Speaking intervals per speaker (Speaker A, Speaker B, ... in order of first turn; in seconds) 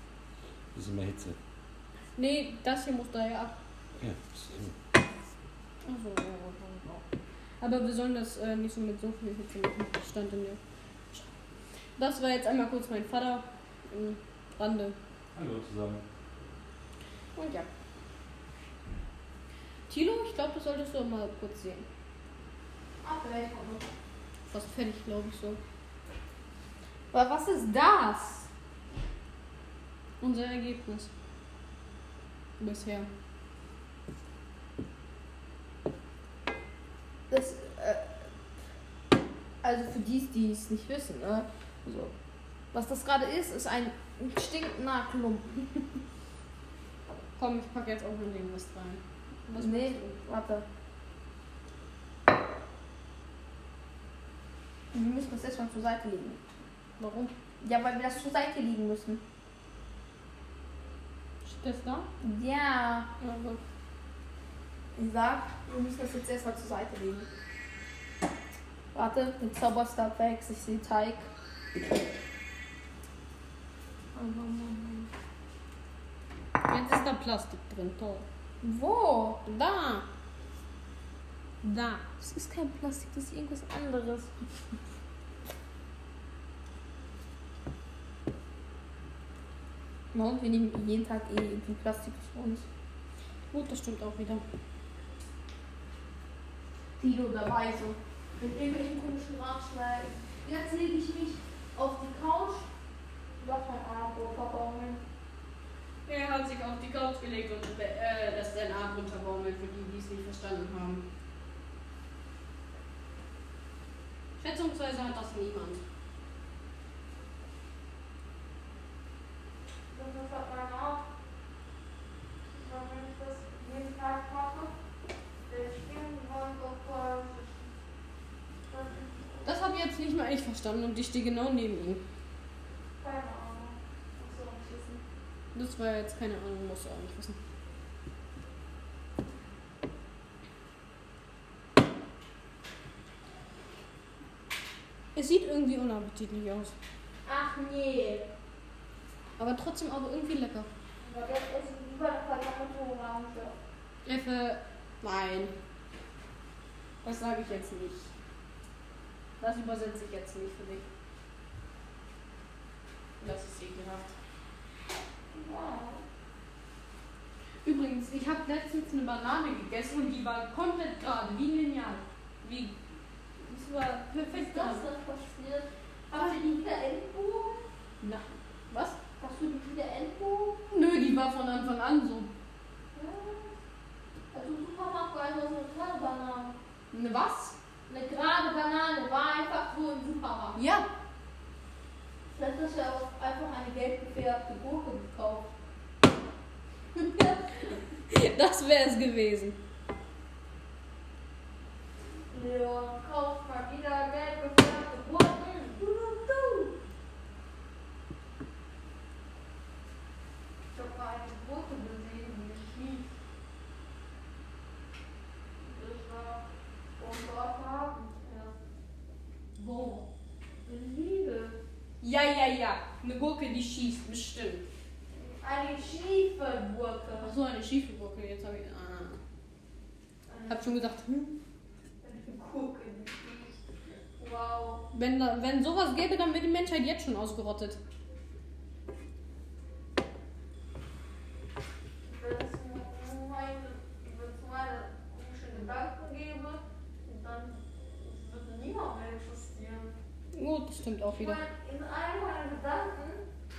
Speaker A: 0.7-1.4, 4.0-4.8, 15.3-16.1
Speaker B: 2.2-3.5, 5.8-7.0, 7.6-15.0, 17.4-17.7, 19.9-21.9, 24.5-25.6, 30.2-31.1, 32.6-33.1, 47.4-50.2, 57.0-57.3, 61.5-62.1, 63.2-63.6, 76.6-78.3, 79.5-80.1, 81.6-82.1, 93.5-94.5, 106.1-111.1, 114.4-115.8, 129.4-132.1, 135.6-137.4, 145.2-146.8, 149.4-150.7, 154.1-155.6, 157.0-158.1, 159.4-160.9, 163.2-164.2, 167.6-172.8, 173.4-174.8, 178.0-179.0, 180.7-182.3, 186.9-187.6, 190.6-190.9, 198.1-199.6, 219.6-220.1, 222.0-224.7, 227.2-229.2, 230.5-231.1, 234.9-237.8, 250.3-251.4
Speaker C: 23.0-23.9, 27.1-28.5, 37.3-38.2, 39.6-42.1, 42.7-46.0, 49.6-50.7, 54.9-56.4, 57.6-59.2, 62.2-63.1, 65.0-67.3, 68.9-71.3, 74.1-75.1, 78.6-79.4, 82.2-84.8, 90.1-92.7, 97.0-102.7, 103.4-105.0, 119.9-121.1, 122.5-124.8, 125.5-127.7, 128.7-129.5, 133.0-135.0, 147.2-148.3, 151.0-153.6, 165.3-166.1, 174.2-177.7, 179.2-180.7, 182.9-183.6, 184.3-186.6, 187.9-190.6, 192.3-195.5, 197.0-197.7, 202.3-206.8, 210.7-213.1, 215.6-216.4, 217.0-218.5, 220.7-221.6, 225.2-227.3, 230.3-231.3, 232.0-234.9, 242.0-249.9, 251.1-253.2